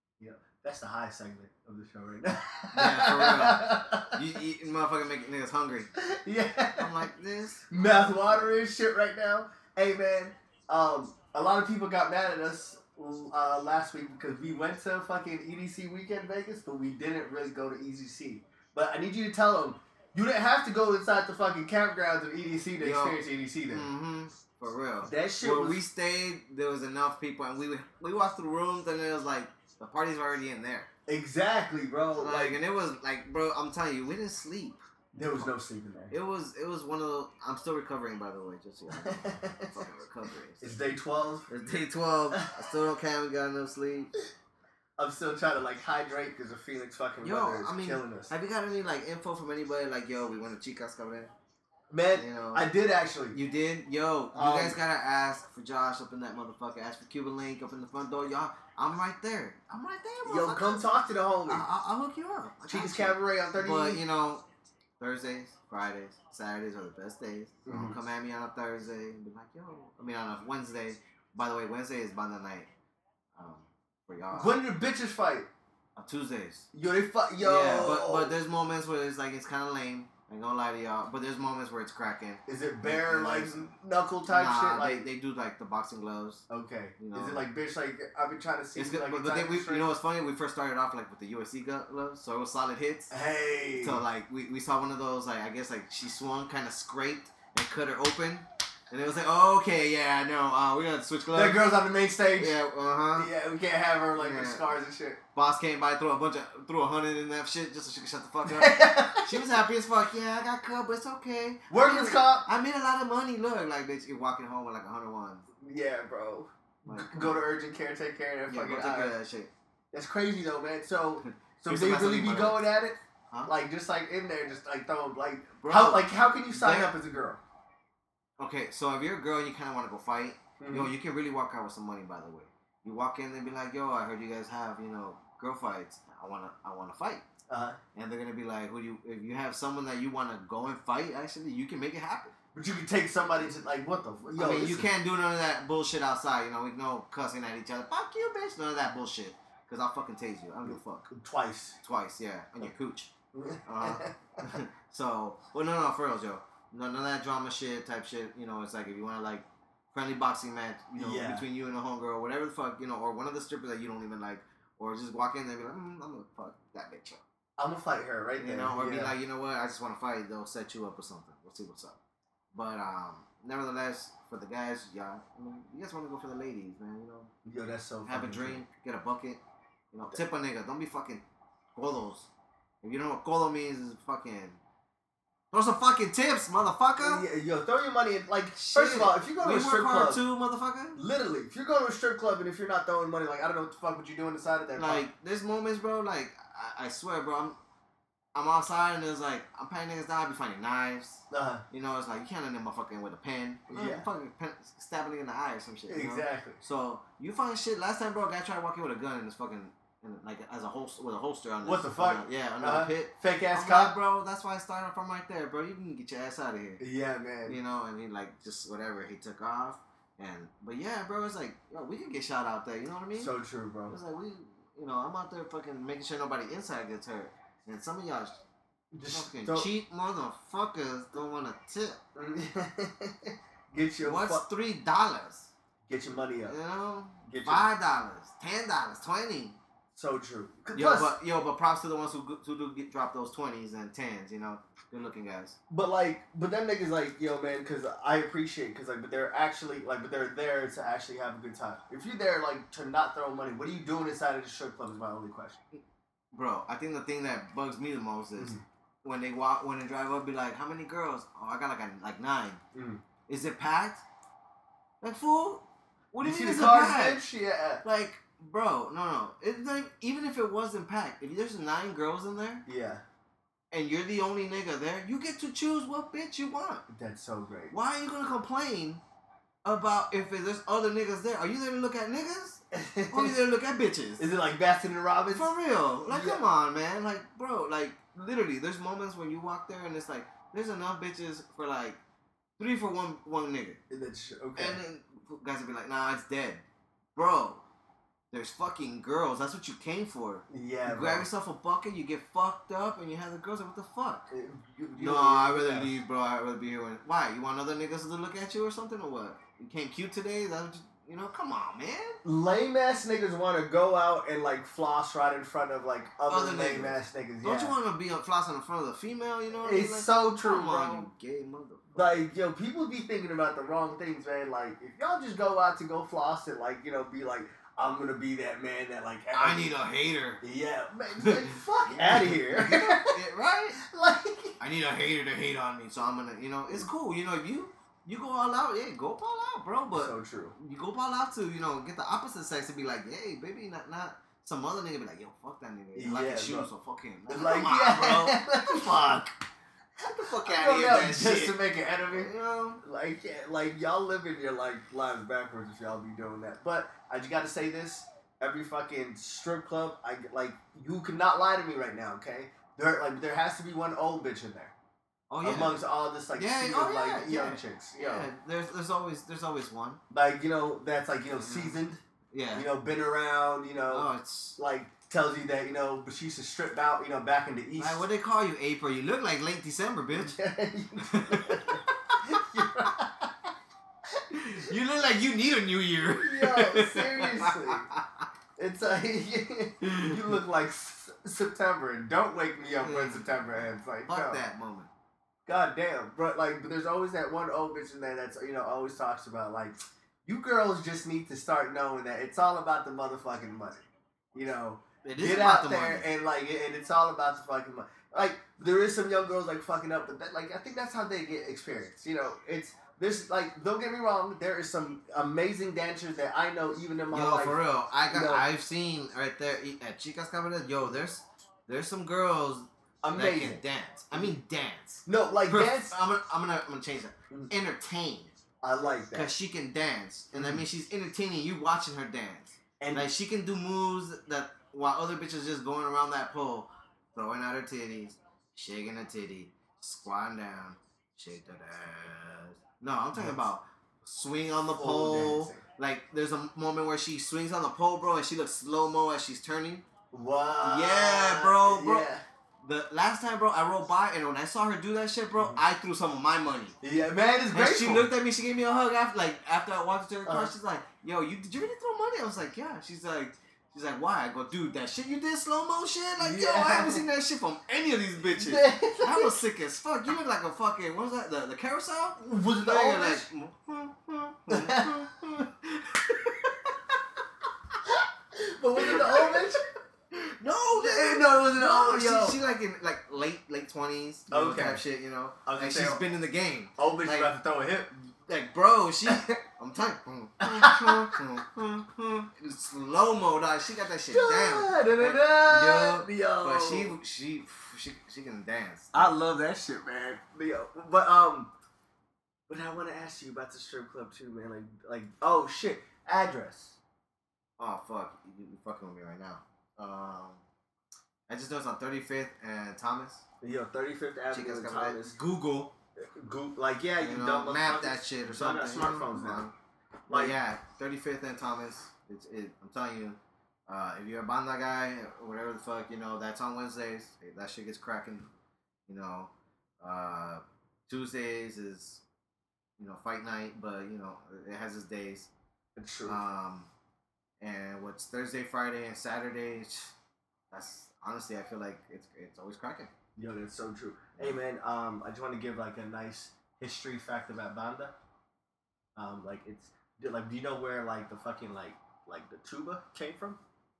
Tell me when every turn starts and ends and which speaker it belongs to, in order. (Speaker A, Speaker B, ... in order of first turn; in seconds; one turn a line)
Speaker A: 0.2-4.2
Speaker B: 2.7-5.9
Speaker A: 6.0-6.9
Speaker B: 6.8-8.6
Speaker A: 7.7-23.9
Speaker B: 22.8-30.9
Speaker A: 25.0-25.8
Speaker A: 31.1-32.6
Speaker B: 32.1-34.8
Speaker A: 35.1-36.1
Speaker B: 36.1-40.8
Speaker A: 38.9-39.7
Speaker A: 40.6-41.5
Speaker B: 41.5-44.1
Speaker A: 45.0-48.3
Speaker B: 47.2-51.3
Speaker A: 51.9-53.4
Speaker B: 52.1-52.6
Speaker B: 53.3-60.9
Speaker A: 54.3-54.8
Speaker A: 60.2-61.6
Speaker B: 61.5-64.4
Speaker A: 62.7-64.0
Speaker B: 65.0-72.7
Speaker A: 67.7-68.0
Speaker B: 73.3-74.6
Speaker A: 74.3-75.5
Speaker B: 76.0-76.7
Speaker A: 76.7-78.3
Speaker B: 77.4-83.7
Speaker A: 82.5-85.1
Speaker B: 84.3-86.4
Speaker A: 86.5-89.9
Speaker B: 87.0-87.4
Speaker B: 88.8-93.1
Speaker A: 93.1-94.0
Speaker B: 93.8-101.6
Speaker A: 101.3-102.5
Speaker B: 102.3-103.3
Speaker A: 103.2-105.2
Speaker B: 104.2-104.7
Speaker B: 105.3-115.5
Speaker A: 108.5-109.4
Speaker A: 111.7-112.5
Speaker A: 115.6-119.1
Speaker B: 116.8-117.5
Speaker B: 118.5-119.5
Speaker A: 119.9-127.4
Speaker B: 121.6-122.7
Speaker B: 125.6-126.9
Speaker B: 128.4-137.2
Speaker A: 130.6-130.9
Speaker A: 137.5-137.8
Speaker B: 137.9-142.3
Speaker A: 142.5-144.9
Speaker B: 144.3-151.1
Speaker A: 150.6-151.8
Speaker B: 151.8-153.1
Speaker A: 153.3-154.5
Speaker B: 153.6-167.2
Speaker A: 160.9-161.4
Speaker A: 167.6-169.1
Speaker B: 168.4-172.0
Speaker B: 172.5-177.3
Speaker A: 177.4-178.6
Speaker B: 178.0-179.4
Speaker B: 179.9-182.3
Speaker B: 182.8-184.6
Speaker B: 185.5-187.2
Speaker A: 187.0-190.2
Speaker B: 188.5-191.0
Speaker A: 190.9-195.0
Speaker B: 194.8-197.6
Speaker B: 198.3-216.8
Speaker A: 201.3-201.6
Speaker A: 203.7-204.1
Speaker A: 205.9-206.6
Speaker A: 211.6-213.9
Speaker A: 216.8-217.6
Speaker B: 217.4-223.3
Speaker A: 223.1-223.9
Speaker B: 223.9-228.4
Speaker A: 228.9-229.7
Speaker B: 229.1-232.0
Speaker A: 232.1-234.4
Speaker B: 234.0-235.5
Speaker A: 235.9-236.6
Speaker B: 236.4-239.6
Speaker A: 237.2-237.6
Speaker A: 239.9-241.1
Speaker B: 240.7-245.6
Speaker A: 245.7-255.6
Speaker B: 255.7-262.6
Speaker A: 262.7-263.0
Speaker B: 263.3-264.0
Speaker B: 265.0-267.2
Speaker A: 266.2-267.8
Speaker B: 267.8-272.6
Speaker A: 272.6-273.0
Speaker B: 273.7-276.8
Speaker A: 276.9-277.7
Speaker B: 277.7-279.0
Speaker B: 279.6-284.2
Speaker A: 282.7-283.4
Speaker A: 284.2-285.5
Speaker B: 285.3-292.0
Speaker A: 286.1-286.4
Speaker B: 292.6-293.8
Speaker A: 293.9-294.8
Speaker B: 294.6-296.6
Speaker B: 297.1-297.6
Speaker B: 298.3-304.3
Speaker A: 300.5-301.2
Speaker A: 304.3-305.9
Speaker B: 305.0-312.2
Speaker A: 312.2-317.7
Speaker B: 316.3-322.2
Speaker A: 319.6-321.1
Speaker A: 321.9-329.8
Speaker B: 329.3-330.4
Speaker A: 330.4-333.2
Speaker B: 331.2-333.8
Speaker A: 333.8-334.6
Speaker B: 334.6-348.9
Speaker A: 339.9-340.6
Speaker A: 345.9-346.7
Speaker A: 347.3-349.3
Speaker B: 350.0-352.8
Speaker A: 350.4-364.7
Speaker B: 365.3-365.8
Speaker A: 365.4-368.3
Speaker B: 366.4-370.0
Speaker A: 370.1-372.0
Speaker B: 371.4-371.8
Speaker B: 372.3-372.7
Speaker A: 372.5-378.0
Speaker B: 373.9-374.6
Speaker B: 377.8-380.3
Speaker A: 380.1-383.3
Speaker B: 381.1-382.9
Speaker B: 384.3-388.2
Speaker A: 386.0-387.9
Speaker A: 388.6-394.4
Speaker B: 389.8-390.3
Speaker B: 392.8-393.3
Speaker B: 394.1-394.9
Speaker A: 395.4-418.4
Speaker B: 405.0-406.1
Speaker B: 417.1-428.3
Speaker A: 423.0-424.4
Speaker A: 425.1-426.0
Speaker A: 428.6-429.3
Speaker B: 429.1-449.8
Speaker A: 430.3-430.6
Speaker A: 432.8-433.1
Speaker A: 444.7-445.6
Speaker A: 450.1-452.2
Speaker B: 450.6-452.1
Speaker B: 452.6-456.8
Speaker A: 456.8-458.1
Speaker B: 457.5-476.1
Speaker A: 460.2-460.5
Speaker A: 466.2-467.1
Speaker A: 468.4-469.4
Speaker A: 472.2-473.3
Speaker A: 474.5-475.1
Speaker A: 476.1-476.8
Speaker A: 477.9-479.6
Speaker B: 478.8-479.4
Speaker B: 480.1-487.3
Speaker A: 480.7-482.4
Speaker A: 484.3-484.8
Speaker A: 485.4-486.0
Speaker A: 486.8-488.0
Speaker B: 488.3-499.1
Speaker A: 489.1-489.4
Speaker A: 490.4-491.2
Speaker A: 494.1-496.9
Speaker A: 498.9-501.5
Speaker A: 502.5-506.8
Speaker B: 507.6-510.4
Speaker B: 511.3-513.2
Speaker A: 513.4-515.1
Speaker B: 514.3-515.7
Speaker A: 516.0-519.5
Speaker B: 517.0-519.5
Speaker A: 520.1-520.4
Speaker B: 520.1-528.3
Speaker B: 528.9-532.0
Speaker B: 532.8-535.3
Speaker A: 535.8-536.2
Speaker B: 536.0-536.7
Speaker B: 537.4-539.9
Speaker B: 540.5-542.9
Speaker A: 543.2-547.9
Speaker A: 549.0-553.4